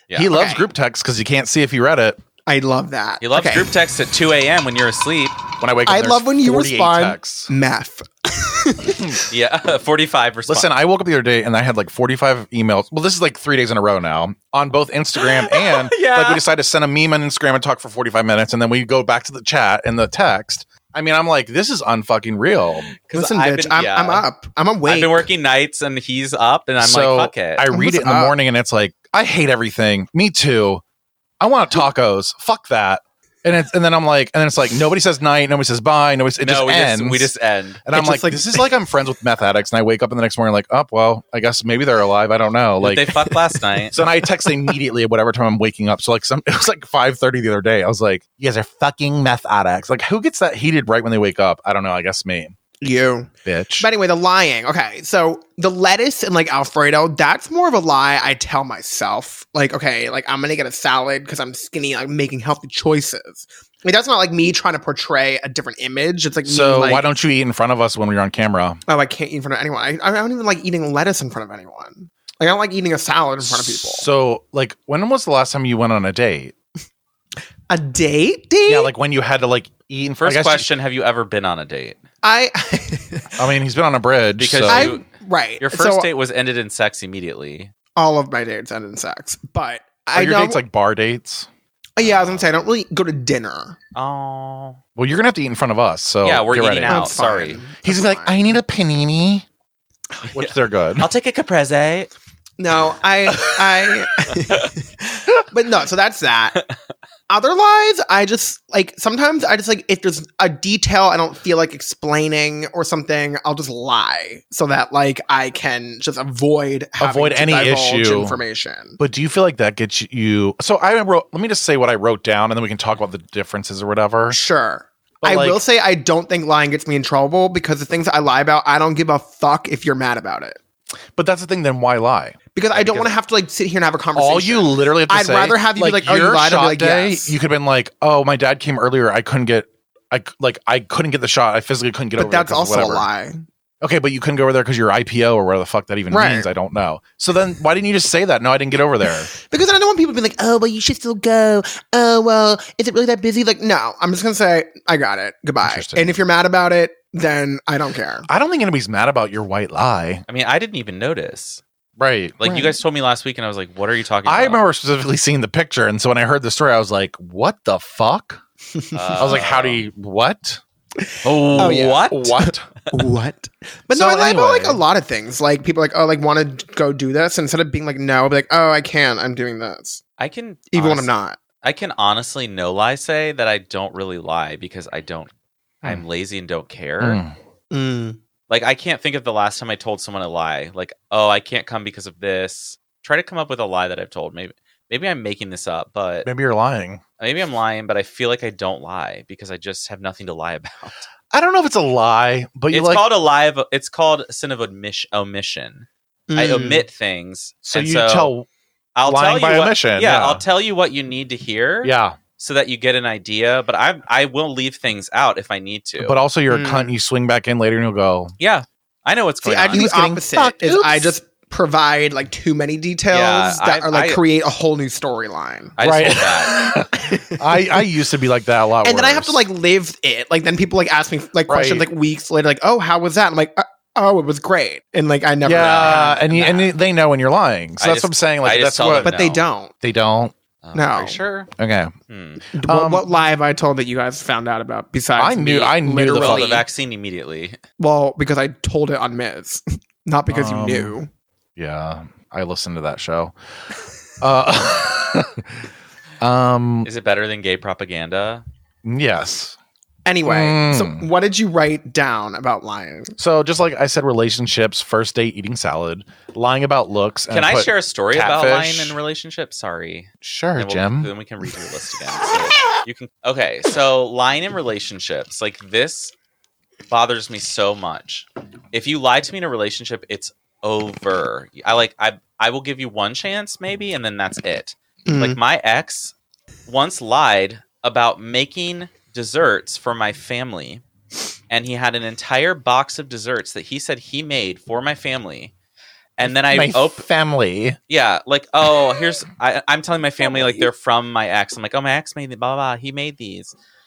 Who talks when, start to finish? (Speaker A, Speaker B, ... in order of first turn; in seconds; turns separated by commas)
Speaker A: 0.1-2.2, Speaker B: 0.3-0.7, Speaker B: 2.5-3.7, Speaker C: 3.2-5.4, Speaker A: 5.6-7.5, Speaker B: 5.9-9.2, Speaker C: 9.3-10.7, Speaker A: 10.5-22.9, Speaker C: 15.2-16.4, Speaker C: 23.0-24.3, Speaker B: 23.1-25.3, Speaker C: 24.9-27.7, Speaker A: 26.8-30.8, Speaker B: 27.7-28.3, Speaker A: 31.4-37.3, Speaker C: 36.4-37.8, Speaker A: 37.9-43.2, Speaker B: 37.9-38.7, Speaker C: 42.8-44.0, Speaker A: 43.9-52.5, Speaker B: 52.8-67.0, Speaker A: 53.5-53.9, Speaker A: 66.4-68.8, Speaker B: 68.9-74.1, Speaker A: 73.4-76.5, Speaker B: 77.7-78.9, Speaker A: 78.7-80.7, Speaker C: 80.2-82.0, Speaker B: 82.2-83.3, Speaker A: 83.4-85.0, Speaker C: 84.4-85.1, Speaker B: 84.7-86.1, Speaker C: 85.6-87.7, Speaker B: 88.0-90.6, Speaker A: 90.1-91.5, Speaker B: 92.0-93.8, Speaker C: 92.0-92.5, Speaker C: 94.0-94.8, Speaker A: 95.0-97.2, Speaker C: 96.2-97.6, Speaker B: 96.8-98.6, Speaker A: 97.8-99.5, Speaker C: 100.3-102.1, Speaker A: 100.3-101.1, Speaker B: 102.6-106.6, Speaker B: 107.3-119.0, Speaker A: 117.0-118.4, Speaker A: 119.0-124.4, Speaker B: 124.3-130.6, Speaker A: 125.2-125.6, Speaker A: 131.2-133.2, Speaker B: 132.6-137.3, Speaker A: 134.2-143.1, Speaker B: 142.2-143.4, Speaker A: 143.8-149.3, Speaker B: 146.1-146.5, Speaker B: 149.3-158.3, Speaker A: 155.6-156.2, Speaker A: 158.3-160.2, Speaker C: 160.3-161.6, Speaker A: 162.0-162.4, Speaker C: 162.4-164.6, Speaker B: 162.4-162.8, Speaker A: 164.2-168.4, Speaker B: 168.8-169.4, Speaker C: 168.9-169.8, Speaker A: 169.2-170.6, Speaker B: 171.0-180.0, Speaker C: 171.2-172.3, Speaker A: 171.5-172.7, Speaker A: 173.9-174.8, Speaker C: 180.2-181.1, Speaker B: 180.7-181.4, Speaker C: 181.6-185.3, Speaker C: 185.8-187.2, Speaker A: 187.0-187.3, Speaker B: 187.7-188.2, Speaker C: 188.5-196.3, Speaker A: 196.2-197.0, Speaker C: 197.2-201.1, Speaker A: 201.3-203.1, Speaker C: 202.7-208.3, Speaker B: 206.3-206.8, Speaker A: 207.6-208.5, Speaker C: 209.0-216.2, Speaker A: 209.0-210.4, Speaker A: 211.8-212.2, Speaker A: 216.0-218.3, Speaker B: 216.5-216.9, Speaker C: 218.4-219.9, Speaker B: 219.4-225.8, Speaker A: 219.7-221.2, Speaker C: 223.1-224.2, Speaker C: 225.8-226.7, Speaker A: 225.8-229.4, Speaker B: 226.7-227.8, Speaker B: 228.8-236.2, Speaker A: 231.5-231.9, Speaker A: 235.4-239.2, Speaker C: 235.6-236.7, Speaker C: 237.8-239.4, Speaker B: 239.0-239.7, Speaker A: 239.8-240.3, Speaker C: 240.6-241.5, Speaker B: 240.7-241.2, Speaker A: 241.5-241.9, Speaker C: 242.1-242.4, Speaker B: 242.5-246.6, Speaker A: 242.6-243.1, Speaker A: 245.2-246.6, Speaker C: 246.1-247.6, Speaker B: 247.8-251.1, Speaker A: 250.3-251.0, Speaker A: 251.6-253.3, Speaker A: 254.2-255.6, Speaker A: 256.2-256.9, Speaker C: 256.9-258.4, Speaker A: 258.8-259.6, Speaker B: 260.1-263.1, Speaker A: 260.2-261.1, Speaker A: 263.2-269.0, Speaker C: 267.3-276.1, Speaker A: 270.2-271.1, Speaker C: 276.9-286.1, Speaker B: 285.1-285.4, Speaker C: 286.7-290.8, Speaker C: 291.5-295.5, Speaker C: 296.2-297.1, Speaker A: 296.2-297.8, Speaker C: 297.9-303.5